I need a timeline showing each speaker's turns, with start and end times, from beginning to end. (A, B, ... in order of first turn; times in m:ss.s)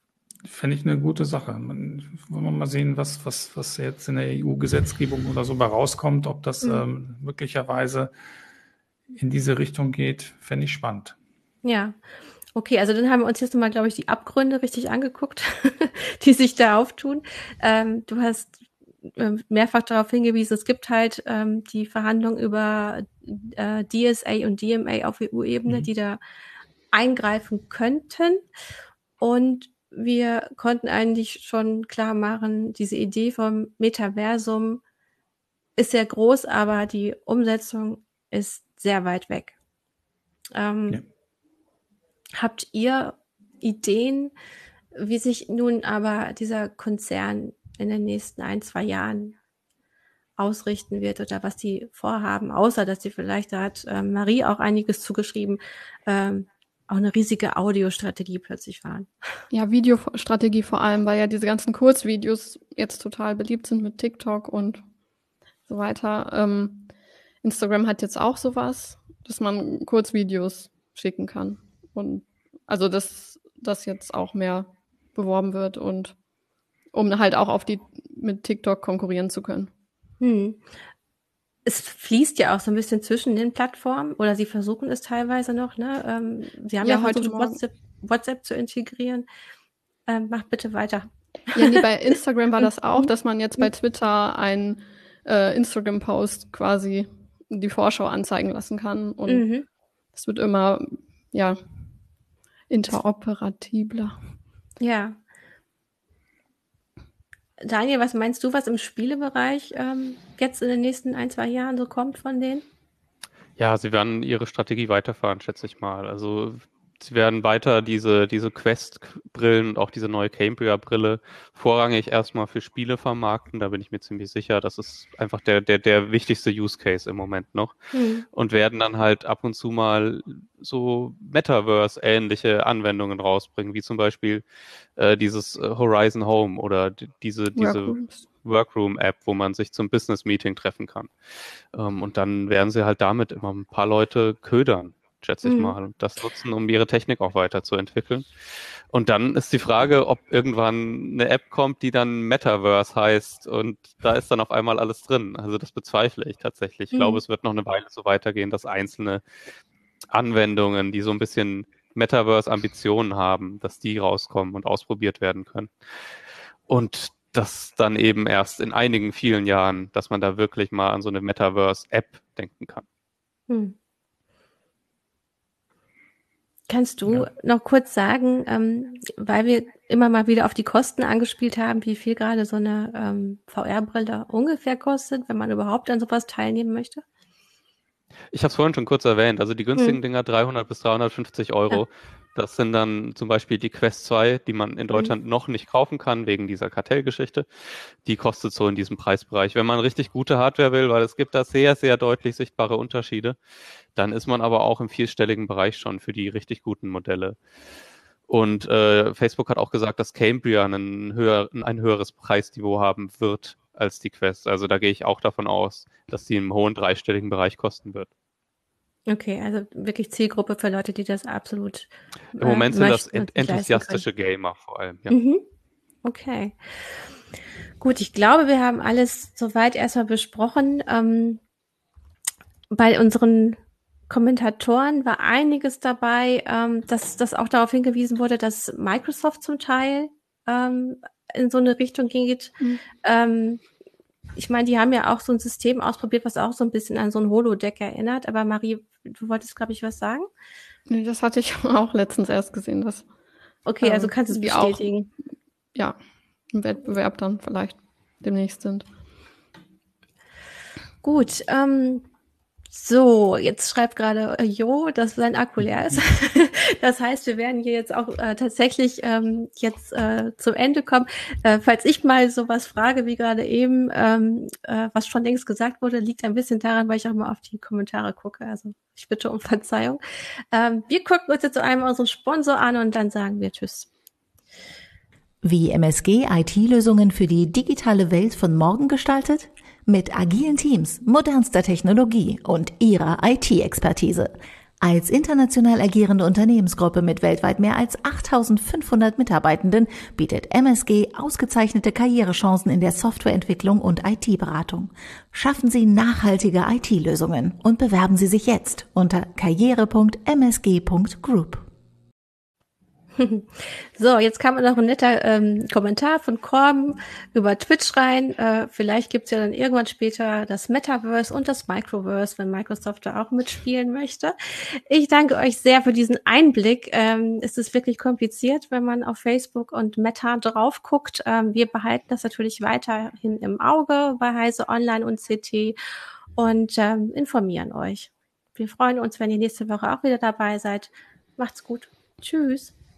0:00.4-0:08.1 A
0:09.1-0:11.2 A
0:11.6-0:12.0 B
0:12.6-0:18.6 B
0:19.2-0:26.2 B
0:26.9-0:28.4 B
0:29.2-0:34.8 B
0:35.8-0:39.6 B
0:40.5-0:41.0 B
0:42.4-0:44.3 B
0:45.0-0:49.4 B
0:50.4-0:59.1 B
0:59.5-1:04.8 C
1:05.7-1:06.9 C
1:07.4-1:16.1 C
1:16.9-1:19.7 C
1:20.2-1:20.6 B
1:21.7-1:29.3 B
1:26.8-1:27.6 C
1:30.1-1:31.8 B
1:31.5-1:39.5 C
1:39.3-1:39.6 B
1:40.2-1:41.6 C
1:42.7-1:44.2 C
1:44.8-1:45.2 B
1:47.6-1:52.6 B
1:53.6-2:07.8 D
2:07.9-2:08.2 B
2:08.3-2:14.4 D
2:15.0-2:21.1 D
2:17.6-2:18.2 C
2:21.7-2:28.3 D
2:25.4-2:25.7 B
2:28.9-2:39.2 D
2:36.9-2:37.2 B
2:40.1-2:45.7 D
2:46.7-2:52.8 D
2:53.5-2:53.8 B
2:56.7-3:07.0 B
3:08.3-3:17.5 D
3:18.0-3:23.4 D
3:24.0-3:27.4 D
3:28.3-3:38.1 D
3:39.1-3:44.0 B
3:42.4-3:45.2 D
3:45.1-3:45.4 B
3:46.0-3:46.6 B
3:47.8-3:51.4 B
3:52.7-4:03.6 B
4:04.4-4:10.3 B
4:10.9-4:13.1 C
4:13.7-4:15.0 B
4:13.8-4:15.1 C
4:16.5-4:18.9 C
4:21.0-4:22.1 B
4:22.7-4:40.0 B
4:40.5-4:43.9 B
4:45.4-5:11.6 E
5:13.2-5:35.8 B
5:36.4-5:42.7 B